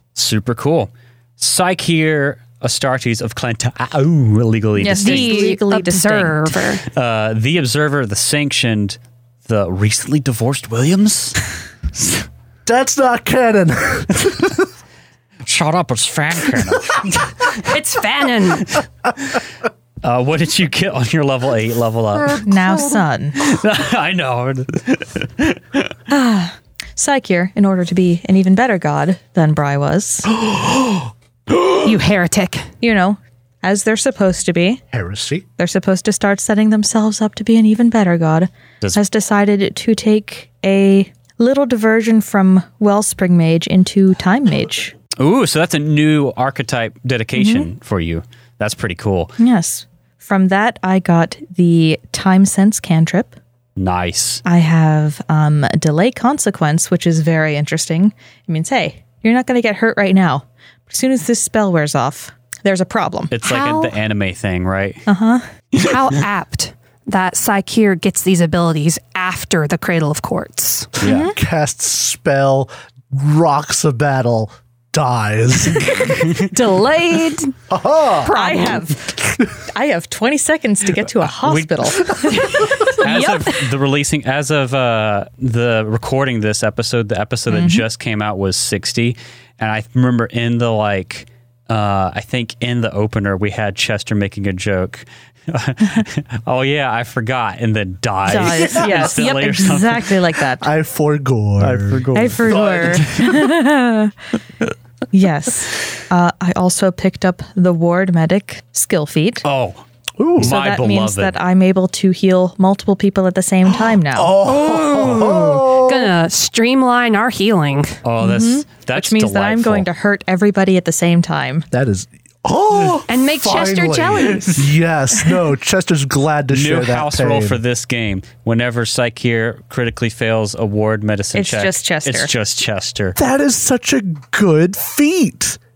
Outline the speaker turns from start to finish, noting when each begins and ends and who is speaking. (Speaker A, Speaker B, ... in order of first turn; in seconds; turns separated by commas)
Speaker A: 0.1-5.5, Speaker B: 4.8-6.6, Speaker C: 5.0-6.8, Speaker A: 6.9-11.4, Speaker A: 11.9-12.2, Speaker D: 12.7-14.7, Speaker A: 15.5-17.6, Speaker C: 17.6-18.8, Speaker A: 20.0-22.4, Speaker D: 22.4-22.8, Speaker B: 22.4-23.4, Speaker A: 23.4-25.9, Speaker B: 26.1-30.3, Speaker D: 30.4-31.6, Speaker C: 31.7-32.7, Speaker B: 32.8-34.8, Speaker D: 34.9-35.5, Speaker B: 35.6-45.0, Speaker A: 45.2-49.3, Speaker B: 47.4-47.7, Speaker B: 49.4-53.4, Speaker A: 53.8-54.4, Speaker B: 54.5-63.3, Speaker A: 63.3-65.0, Speaker C: 63.4-63.9, Speaker B: 65.1-65.5, Speaker C: 65.8-71.0, Speaker D: 71.0-76.2, Speaker B: 71.0-71.3, Speaker A: 71.0-71.3, Speaker A: 76.1-76.4, Speaker C: 76.5-77.5, Speaker D: 77.7-78.3, Speaker C: 78.2-79.1, Speaker B: 78.2-82.9, Speaker A: 81.4-100.2, Speaker C: 83.0-83.5, Speaker B: 87.5-87.8, Speaker B: 98.3-100.7, Speaker D: 98.4-99.3, Speaker D: 100.6-103.2, Speaker A: 101.6-103.4, Speaker B: 102.1-104.1, Speaker B: 105.1-109.4, Speaker A: 109.4-109.8, Speaker D: 110.2-110.6, Speaker A: 110.4-111.4, Speaker B: 110.4-114.3, Speaker D: 113.7-116.1, Speaker C: 114.4-118.0, Speaker A: 118.0-119.9, Speaker B: 118.2-121.7, Speaker D: 121.7-127.6, Speaker C: 123.1-124.7, Speaker A: 126.5-133.2, Speaker B: 131.3-132.3, Speaker D: 133.2-135.6